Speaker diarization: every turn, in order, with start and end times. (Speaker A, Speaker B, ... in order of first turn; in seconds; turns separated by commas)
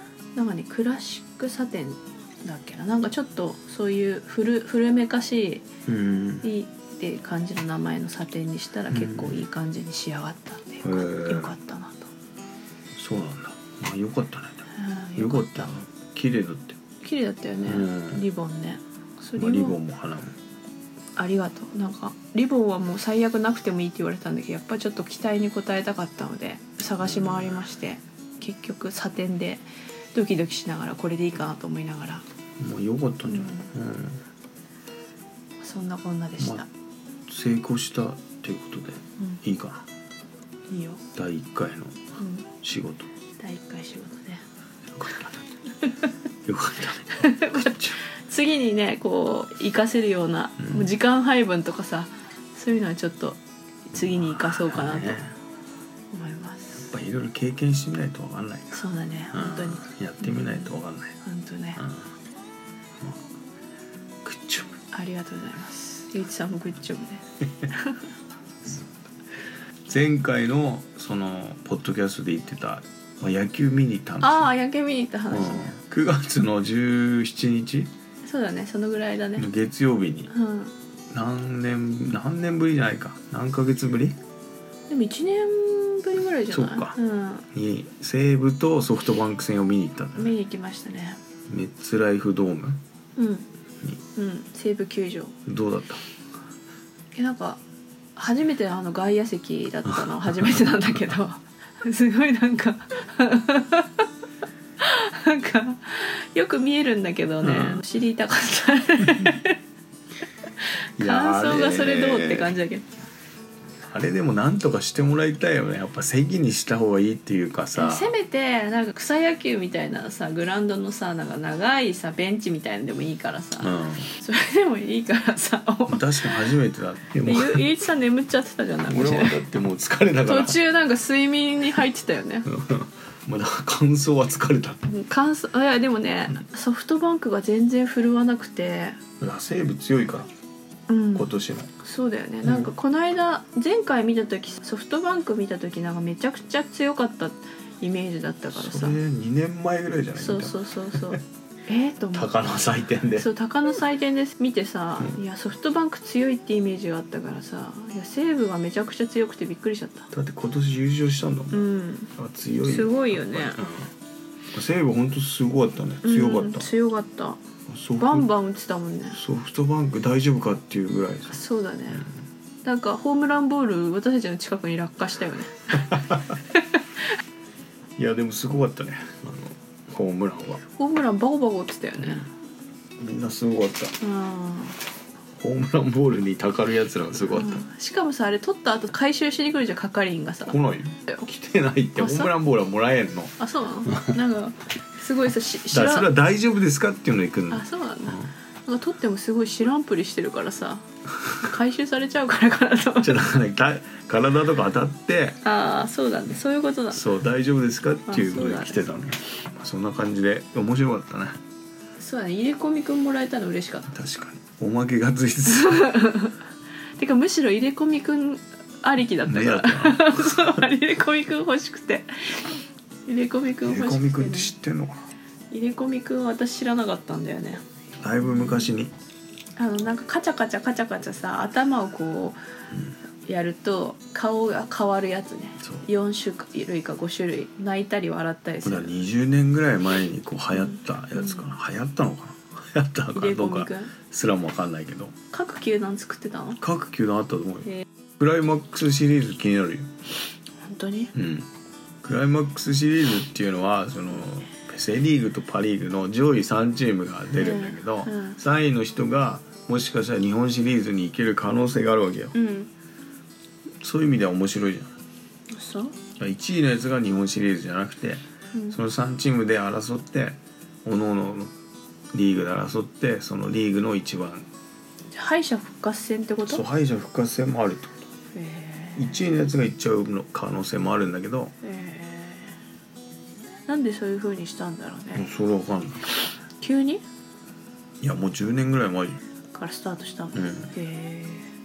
Speaker A: 0.3-5.7, Speaker B: 5.9-6.5, Speaker A: 6.4-12.1, Speaker B: 8.9-9.4, Speaker B: 10.8-11.5, Speaker B: 13.0-14.7, Speaker A: 14.8-15.8, Speaker B: 15.2-16.8, Speaker A: 17.0-19.8, Speaker B: 17.6-18.2, Speaker B: 19.4-20.4, Speaker A: 21.2-32.2, Speaker B: 27.0-27.6, Speaker B: 32.6-34.2, Speaker A: 33.3-33.7, Speaker A: 35.6-36.7, Speaker B: 36.4-36.6, Speaker B: 37.3-39.9, Speaker A: 40.7-41.0, Speaker B: 41.1-42.0, Speaker A: 42.2-42.5, Speaker B: 42.6-43.1, Speaker A: 43.4-44.4, Speaker B: 44.9-45.4, Speaker B: 46.5-48.0, Speaker A: 47.2-55.2, Speaker B: 50.6-50.9, Speaker B: 54.0-55.4, Speaker A: 56.1-56.9, Speaker B: 56.8-61.2, Speaker A: 58.7-61.8, Speaker B: 61.8-62.1, Speaker B: 64.2-64.8, Speaker A: 64.9-68.0, Speaker B: 69.9-74.5, Speaker A: 74.2-75.8, Speaker B: 75.3-77.9, Speaker A: 78.2-79.5, Speaker B: 79.4-80.3, Speaker A: 80.3-80.7, Speaker B: 81.1-84.2, Speaker A: 84.9-87.5, Speaker B: 86.5-87.0, Speaker B: 87.5-90.3, Speaker A: 90.2-91.2, Speaker B: 91.5-92.8, Speaker A: 93.2-93.5, Speaker A: 94.2-95.4, Speaker B: 95.5-96.0, Speaker A: 97.2-97.6, Speaker A: 98.2-104.1, Speaker B: 100.0-100.6, Speaker A: 104.8-109.6, Speaker B: 107.4-107.8, Speaker B: 109.1-109.4, Speaker A: 110.6-112.9, Speaker B: 111.0-112.5, Speaker B: 113.8-118.1, Speaker A: 117.8-126.5, Speaker B: 123.6-124.1, Speaker B: 125.9-127.7, Speaker A: 127.2-129.4, Speaker B: 128.9-130.6, Speaker A: 130.2-132.5, Speaker B: 132.5-134.9, Speaker A: 134.9-139.0, Speaker B: 139.2-140.3, Speaker A: 140.9-141.3, Speaker B: 141.2-141.7, Speaker A: 141.8-149.0, Speaker B: 142.4-142.7, Speaker B: 148.5-151.2, Speaker A: 150.2-152.3, Speaker B: 152.1-153.3, Speaker A: 153.2-160.1, Speaker B: 160.1-161.6, Speaker A: 161.5-163.7, Speaker B: 162.2-163.9, Speaker B: 164.5-166.7, Speaker A: 166.0-167.4, Speaker B: 167.7-168.3, Speaker A: 168.0-169.2, Speaker B: 169.1-171.4, Speaker A: 171.3-172.1, Speaker A: 172.7-176.6, Speaker B: 175.9-176.2, Speaker B: 178.0-180.6, Speaker A: 180.8-182.3, Speaker B: 182.0-182.2, Speaker B: 183.0-184.0, Speaker A: 184.0-184.8, Speaker B: 185.4-187.7, Speaker A: 187.3-190.6, Speaker B: 190.5-193.3, Speaker A: 192.0-192.3, Speaker A: 193.4-196.1, Speaker B: 193.9-194.2, Speaker B: 195.7-198.3, Speaker A: 197.5-200.8, Speaker A: 201.4-203.2, Speaker B: 203.0-205.4, Speaker A: 205.4-207.1, Speaker B: 206.9-211.4, Speaker A: 208.1-208.9, Speaker A: 212.0-213.9, Speaker B: 213.9-215.9, Speaker A: 215.5-216.3, Speaker A: 217.0-222.6, Speaker B: 219.2-220.6, Speaker A: 223.1-224.5, Speaker B: 223.6-225.1, Speaker A: 225.5-227.6, Speaker B: 228.0-228.9, Speaker A: 228.2-228.7, Speaker A: 229.6-232.4, Speaker A: 233.3-238.9, Speaker B: 238.6-245.2, Speaker A: 240.6-241.4, Speaker A: 243.1-243.9, Speaker A: 245.3-246.6, Speaker B: 246.6-249.9, Speaker A: 250.6-251.1, Speaker B: 251.1-251.5, Speaker B: 252.0-262.3, Speaker A: 257.4-258.4, Speaker A: 262.3-262.7, Speaker B: 263.8-264.9, Speaker A: 265.5-266.0, Speaker B: 266.2-271.5, Speaker B: 272.1-274.5, Speaker A: 275.1-276.6, Speaker B: 276.5-278.1, Speaker A: 278.3-279.2, Speaker B: 279.0-281.6, Speaker A: 281.6-282.6, Speaker A: 283.7-285.3, Speaker B: 285.1-286.1, Speaker A: 286.6-287.0, Speaker B: 288.0-289.2, Speaker A: 289.5-291.5, Speaker B: 290.4-290.7